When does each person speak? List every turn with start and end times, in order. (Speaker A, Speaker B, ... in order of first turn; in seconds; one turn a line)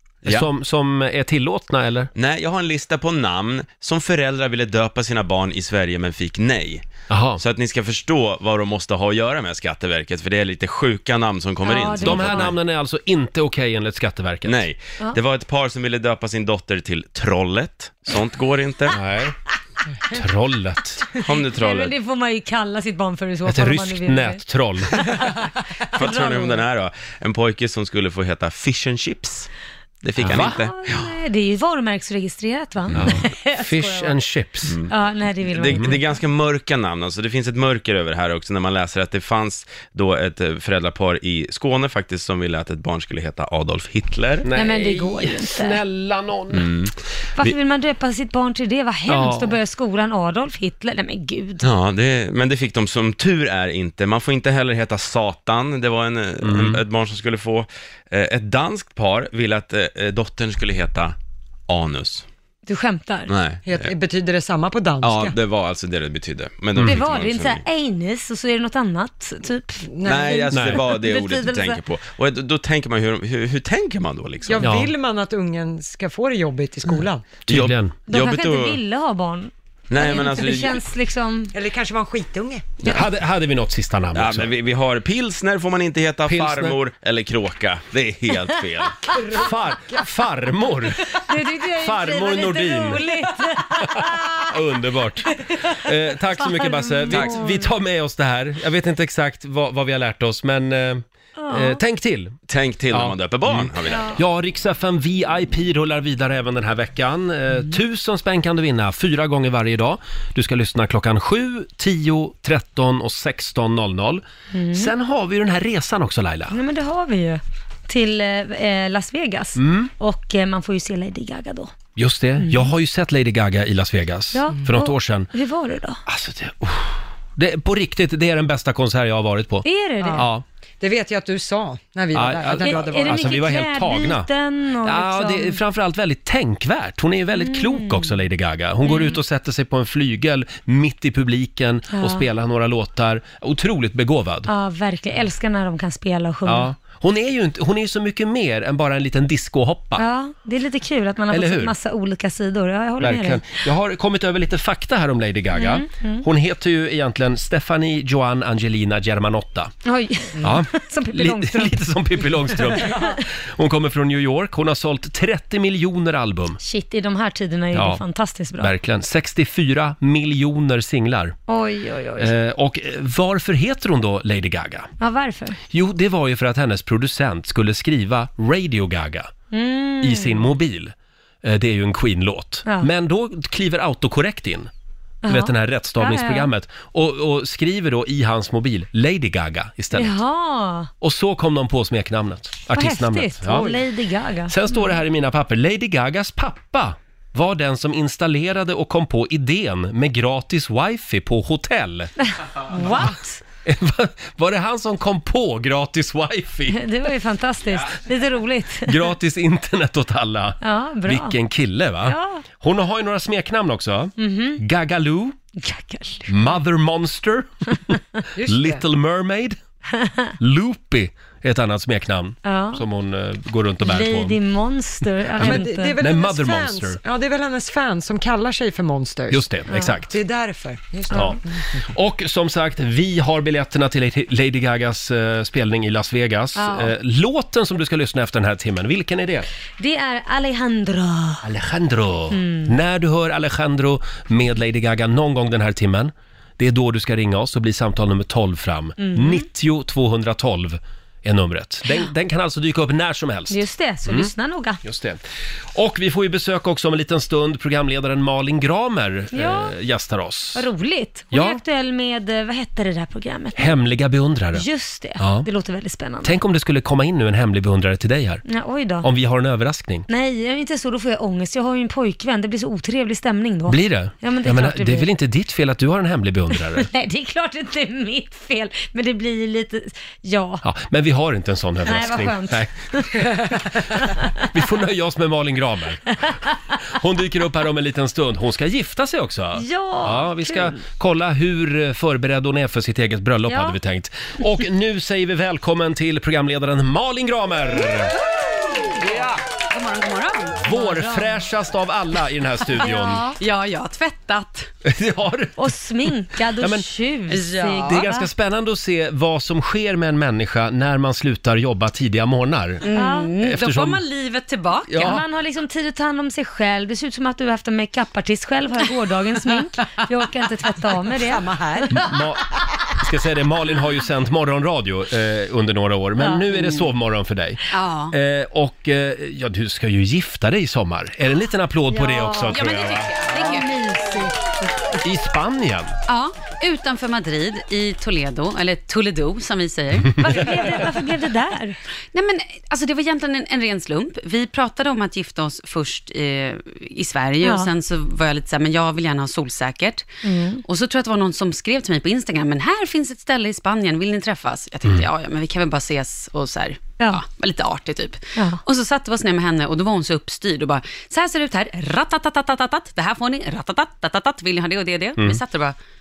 Speaker A: 0.2-2.1
Speaker B: 2.1-6.8
Speaker A: 7.1-7.4
Speaker B: 7.4-12.6
Speaker C: 11.6-12.5
Speaker A: 12.0-14.6
Speaker B: 14.4-19.0
Speaker A: 18.9-19.3
Speaker A: 20.1-21.1
Speaker B: 21.1-21.9
Speaker C: 21.2-26.6
Speaker A: 23.4-25.1
Speaker B: 25.9-29.5
Speaker B: 30.0-31.1
Speaker A: 30.2-30.6
Speaker C: 30.3-34.2
Speaker A: 32.9-34.7
Speaker B: 34.7-44.5
Speaker C: 34.9-36.1
Speaker A: 44.4-46.7
Speaker C: 44.5-45.8
Speaker B: 46.5-47.5
Speaker C: 47.4-51.6
Speaker A: 49.1-49.5
Speaker B: 51.6-61.1
Speaker A: 56.4-56.8
Speaker B: 61.7-62.2
Speaker C: 62.7-63.3
Speaker B: 63.3-63.9
Speaker D: 63.6-65.3
Speaker B: 65.0-67.6
Speaker A: 66.8-67.0
Speaker C: 66.8-71.8
Speaker D: 69.9-70.5
Speaker B: 70.0-74.7
Speaker A: 70.5-70.8
Speaker D: 74.5-77.3
Speaker A: 74.6-74.9
Speaker B: 77.5-78.8
Speaker A: 77.5-77.9
Speaker C: 78.1-81.5
Speaker B: 79.9-80.8
Speaker D: 81.5-82.8
Speaker A: 82.8-84.5
Speaker B: 84.1-89.2
Speaker A: 86.3-86.8
Speaker D: 89.2-90.0
Speaker A: 89.3-91.2
Speaker C: 91.2-94.5
Speaker A: 91.8-93.1
Speaker A: 93.8-102.3
Speaker C: 96.3-97.7
Speaker B: 97.1-97.4
Speaker C: 101.4-101.8
Speaker B: 102.5-104.2
Speaker A: 102.9-116.6
Speaker C: 103.9-104.2
Speaker C: 114.5-114.9
Speaker C: 116.5-121.7
Speaker A: 119.6-119.9
Speaker A: 122.0-125.3
Speaker C: 122.4-122.7
Speaker C: 124.3-126.0
Speaker A: 126.1-130.4
Speaker C: 129.6-130.2
Speaker D: 130.8-133.3
Speaker A: 132.1-134.3
Speaker C: 132.6-135.6
Speaker A: 134.8-144.5
Speaker C: 137.4-138.1
Speaker C: 138.8-139.2
Speaker C: 141.9-142.2
Speaker C: 144.5-146.7
Speaker A: 146.4-150.0
Speaker C: 150.0-153.6
Speaker A: 151.3-151.7
Speaker A: 153.0-159.7
Speaker C: 155.5-156.2
Speaker C: 159.8-161.8
Speaker A: 160.4-166.6
Speaker C: 162.8-163.2
Speaker C: 166.6-168.7
Speaker A: 167.7-168.0
Speaker A: 168.6-171.4
Speaker C: 171.5-172.3
Speaker A: 172.2-174.9
Speaker C: 175.0-175.6
Speaker A: 175.7-179.3
Speaker C: 179.5-180.5
Speaker A: 180.0-184.7
Speaker C: 185.2-186.5
Speaker A: 185.3-190.2
Speaker C: 189.9-190.9
Speaker A: 191.0-193.7
Speaker C: 192.7-194.9
Speaker D: 193.5-193.8
Speaker A: 194.5-202.1
Speaker C: 202.2-203.4
Speaker A: 203.6-206.8
Speaker C: 206.7-209.1
Speaker A: 208.8-215.3
Speaker C: 210.6-211.3
Speaker C: 212.0-212.4
Speaker C: 214.2-214.6
Speaker C: 215.6-216.3
Speaker A: 216.3-219.6
Speaker D: 218.3-218.8
Speaker C: 220.0-220.3
Speaker A: 220.4-224.4
Speaker C: 222.4-222.8
Speaker C: 223.8-225.9
Speaker A: 225.3-227.0
Speaker D: 225.4-229.4
Speaker A: 229.3-230.2
Speaker D: 230.1-231.8
Speaker A: 231.1-239.5
Speaker C: 236.6-236.9
Speaker C: 239.8-241.4
Speaker A: 241.4-254.3
Speaker C: 242.3-242.7
Speaker C: 249.0-249.4
Speaker C: 253.5-254.8
Speaker A: 254.8-255.2
Speaker A: 255.7-260.6
Speaker C: 259.3-259.7
Speaker C: 260.5-263.8
Speaker A: 261.3-261.6
Speaker A: 263.6-264.6
Speaker C: 264.5-266.4
Speaker A: 265.2-265.5
Speaker A: 266.2-268.4
Speaker C: 268.4-269.1
Speaker A: 269.0-270.1
Speaker C: 270.1-275.1
Speaker A: 273.7-276.9
Speaker C: 276.8-280.6
Speaker A: 280.6-286.2
Speaker C: 281.9-284.3
Speaker A: 286.9-298.1
Speaker C: 289.6-290.7
Speaker C: 293.5-293.8
Speaker E: 298.3-300.6
Speaker A: 300.6-303.2
Speaker C: 300.7-301.4
Speaker E: 302.8-304.7
Speaker C: 302.8-303.3
Speaker A: 304.8-305.7
Speaker C: 305.6-308.3
Speaker A: 306.6-306.9
Speaker E: 307.3-308.0
Speaker A: 307.8-312.8
Speaker E: 312.8-315.2
Speaker C: 312.9-313.3
Speaker A: 313.4-314.0
Speaker A: 314.9-315.2
Speaker C: 314.9-321.9
Speaker D: 321.1-322.1
Speaker A: 321.9-322.4
Speaker A: 323.0-333.1
Speaker C: 326.2-326.4
Speaker E: 327.7-328.1
Speaker C: 331.9-334.5
Speaker E: 332.5-333.8
Speaker A: 335.0-335.9
Speaker E: 336.1-340.5
Speaker C: 340.2-341.8
Speaker E: 342.1-350.1
Speaker C: 347.4-347.7
Speaker C: 350.2-350.6
Speaker E: 350.6-365.8